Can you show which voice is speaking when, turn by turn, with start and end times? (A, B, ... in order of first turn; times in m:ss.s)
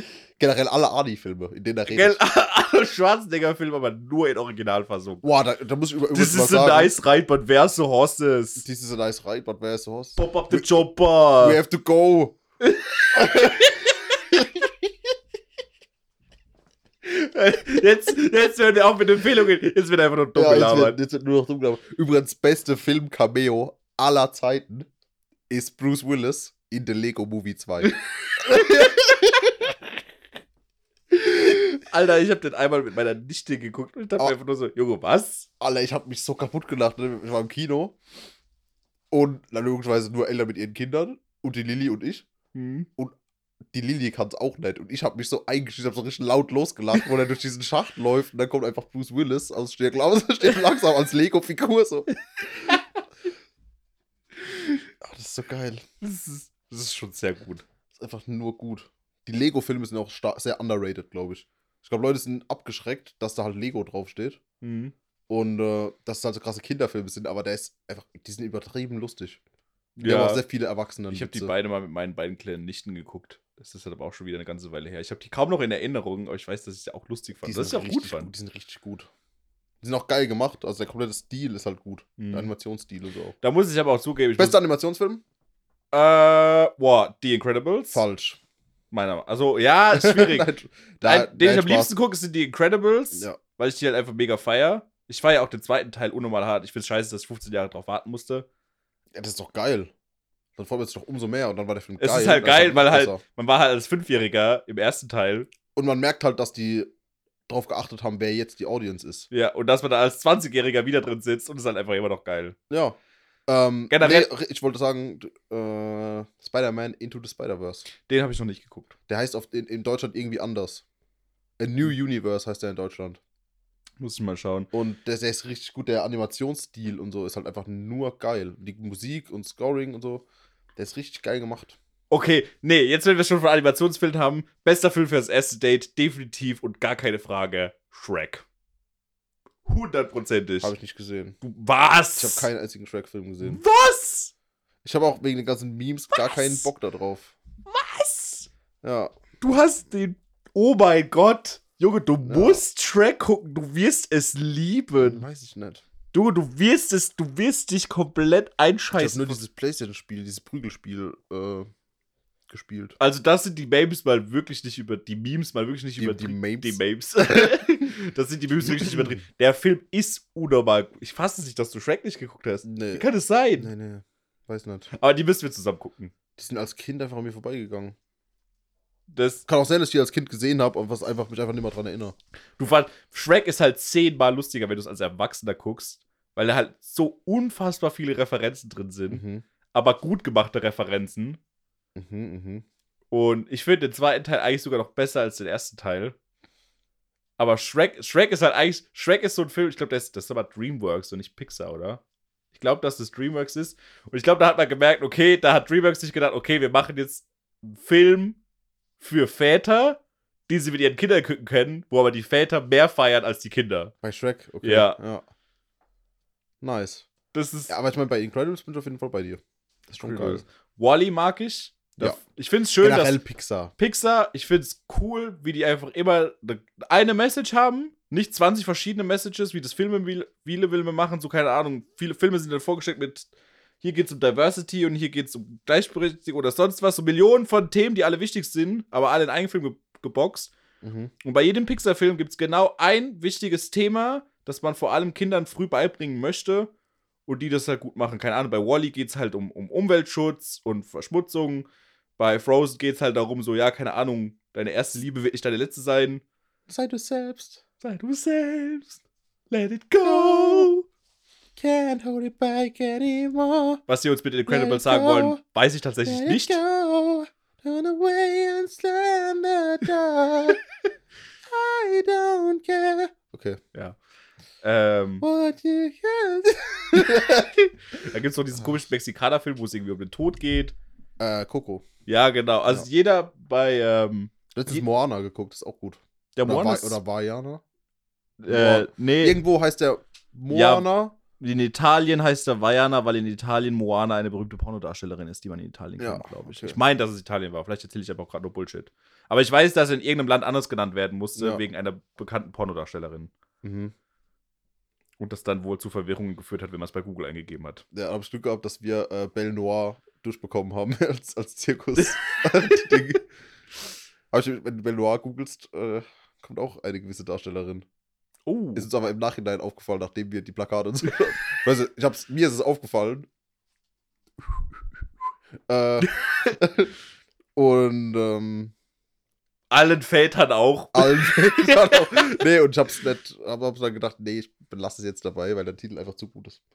0:00.4-0:02.2 A
0:01.9-0:05.2 B
0:05.2-0:06.9 A
0:06.1-0:08.6 B
0:08.6-0:10.8 A
0:10.2-0:11.6 B
0:11.4-0:12.4 A
0:12.6-0:14.1 B
0:13.1-0:14.7 A
0:17.0-0:21.0 B
0:20.3-0:24.9 A
0:25.5-0:29.5 A
0:27.8-0:29.1 B
0:31.1-0:35.5 B
0:35.6-0:37.9 A
0:39.1-0:42.3 A
0:42.5-0:42.9 B
0:43.7-0:52.1 A
0:52.6-0:53.0 B
0:54.4-0:54.8 B
0:55.0-0:55.8 A
0:56.0-0:57.6 B
0:58.0-1:04.4 A
1:04.6-1:04.9 B
1:05.3-1:09.4 A
1:10.0-1:10.4 B
1:10.0-1:11.5 A
1:11.1-1:18.3 B
1:17.4-1:19.1 A
1:19.8-1:23.4 A
1:22.2-1:22.5 B
1:23.4-1:24.6 B
1:24.4-1:25.2 A
1:25.9-1:28.0 B
1:27.9-1:28.4 A
1:28.9-1:38.4 B
1:29.9-1:31.9 A
1:33.1-1:33.4 A
1:39.1-1:39.9 A
1:40.6-1:43.2 A
1:42.0-1:45.5 B
1:45.7-1:46.9 A
1:47.5-1:49.3 A
1:49.3-1:52.6 B
1:52.7-1:57.8 A
1:53.9-1:54.3 B
1:58.0-1:58.9 B
1:59.1-2:00.8 A
2:01.6-2:03.2 A
2:04.0-2:04.7 B
2:04.7-2:10.2 A
2:10.8-2:11.8 A
2:12.1-2:18.4 B
2:19.6-2:20.7 B
2:20.6-2:21.4 A
2:21.4-2:22.5 B
2:22.2-2:23.6 A
2:23.4-2:24.3 B
2:24.8-2:27.3 A
2:26.1-2:26.7 B
2:27.6-2:28.5 B
2:28.8-2:29.1 A
2:29.4-2:35.2 B
2:32.2-2:32.6 A
2:35.0-2:35.8 A
2:36.1-2:39.4 B
2:39.0-2:41.7 A
2:42.5-2:43.0 A
2:43.0-2:53.7 B
2:46.0-2:47.9 A
2:48.6-2:49.2 A
2:52.6-2:53.0 A
2:53.6-2:54.9 A
2:54.9-2:56.1 B
2:56.4-2:58.0 A
2:59.1-2:59.4 B
2:59.5-3:02.1 A
3:02.6-3:11.4 B
3:09.1-3:09.4 A
3:12.0-3:12.6 A
3:13.1-3:16.1 B
3:17.4-3:22.0 B
3:22.5-3:28.4 B
3:29.0-3:33.9 B
3:34.0-3:35.2 A
3:34.6-3:35.0 B
3:36.6-3:37.1 A
3:37.3-3:37.7 B
3:37.7-3:40.4 A
3:40.0-3:43.2 B
3:42.8-3:43.7 A
3:43.8-3:53.3 B
3:53.8-4:00.5 B
4:00.8-4:01.1 A
4:01.2-4:06.7 B
4:07.3-4:16.2 B
4:16.7-4:17.6 A
4:17.8-4:19.0 B
4:19.5-4:20.8 B
4:20.0-4:20.7 A
4:21.6-4:23.8 A
4:23.9-4:26.6 B
4:24.4-4:25.4 A
4:26.0-4:30.6 A
4:31.5-4:33.6 A
4:34.6-4:35.2 B
4:35.2-4:37.6 A
4:36.9-4:40.7 B
4:41.2-4:41.8 A
4:42.1-4:44.8 B
4:44.5-4:47.6 A
4:46.4-4:47.0 B
4:48.4-4:49.4 B
4:48.5-4:51.1 A
4:50.5-4:50.9 B
4:51.4-5:03.3 B
4:56.0-4:56.8 A
5:01.4-5:01.6 A
5:03.6-5:03.9 A
5:05.2-5:07.8 B
5:07.9-5:13.2 A
5:12.0-5:12.7 B
5:14.3-5:17.8 A
5:18.4-5:18.9 B
5:18.7-5:23.3 A
5:25.7-5:26.9 A
5:26.1-5:26.5 B
5:27.6-5:28.7 A
5:29.7-5:32.4 B
5:30.9-5:36.6 A